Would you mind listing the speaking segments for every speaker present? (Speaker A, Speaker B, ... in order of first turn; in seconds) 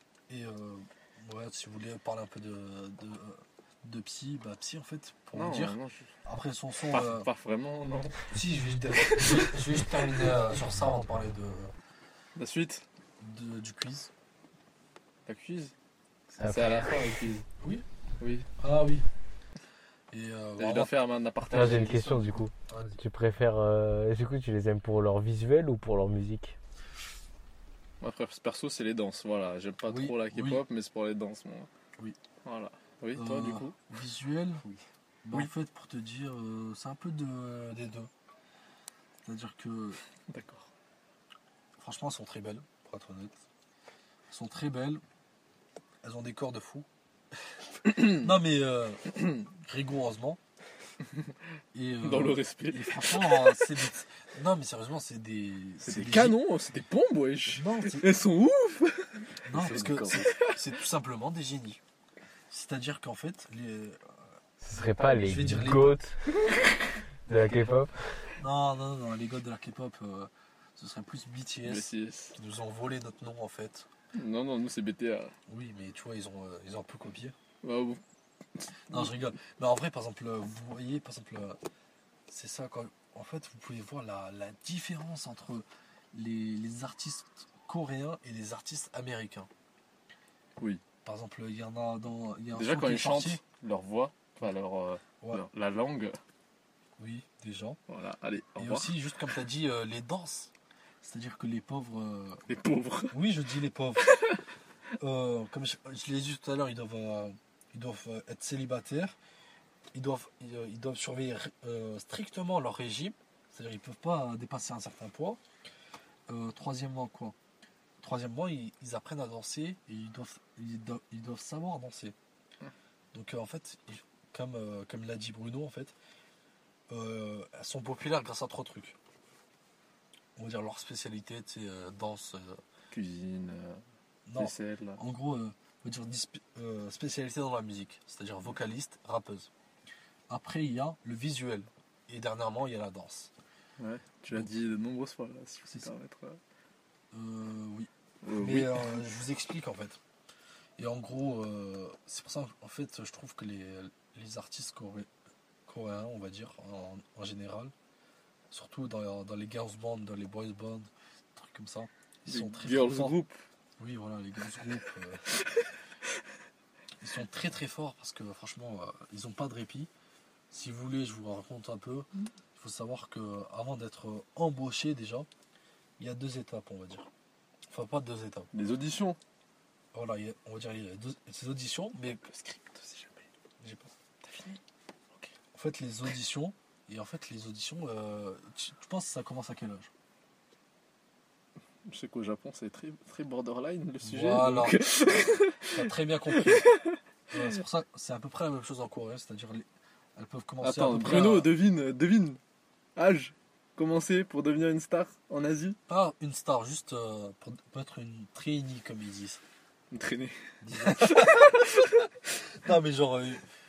Speaker A: 0.3-7.3, 8.3-11.7, 13.2-14.1, 18.6-19.1, 20.1-20.9, 22.7-23.0, 29.9-30.6, 33.1-34.6, 35.2-38.1, 39.2-40.0, 41.8-43.4, 44.3-45.0, 46.0-46.9, 47.8-50.4, 51.7-56.4, 57.5-58.1, 59.5-61.8, 62.5-64.1, 65.2-66.0, 68.4-73.9, 75.5-77.3, 78.9-81.6, 82.3-89.5, 91.0-93.4, 97.0-97.8, 98.6-102.4, 103.1-104.2, 105.0-109.2, 109.9-115.4, 116.3-117.3, 118.0-122.1, 123.1-125.9, 126.9-128.9, 130.4-132.6, 134.2-139.5, 140.3-143.3, 147.1-150.0, 150.8-155.1, 155.7-157.7, 158.5-163.2, 163.8-165.3, 167.0-169.9, 170.5-175.3, 176.0-177.1, 177.7-178.5, 179.9-182.2, 183.6-183.9, 185.5-189.9, 194.0-194.8, 195.7-196.7, 197.3-199.6, 200.2-201.5, 205.9-209.4, 210.6-211.8, 212.5-213.4
Speaker B: 5.3-6.1, 6.9-8.3, 9.1-9.5, 12.4-12.8, 15.3-15.7, 16.4-17.4, 18.2-18.5, 20.6-22.4, 28.0-31.7, 32.4-33.8, 40.3-40.7, 47.9-48.2, 51.1-51.3, 52.0-53.8, 55.8-60.6, 64.9-65.3, 71.6-72.4, 74.1-75.3, 77.6-78.0, 78.6-79.1, 90.6-90.8, 92.5-96.2, 97.9-98.9, 102.5-103.2, 104.0-104.4, 132.9-133.8, 134.4-135.0, 143.8-146.4, 148.2-149.0, 162.2-163.4, 178.5-179.2, 182.2-183.2, 184.2-184.6, 191.9-197.5, 200.6-202.4, 202.9-205.8, 209.9-212.1
Speaker C: 16.4-17.2, 21.5-26.6, 64.6-66.2, 67.3-68.3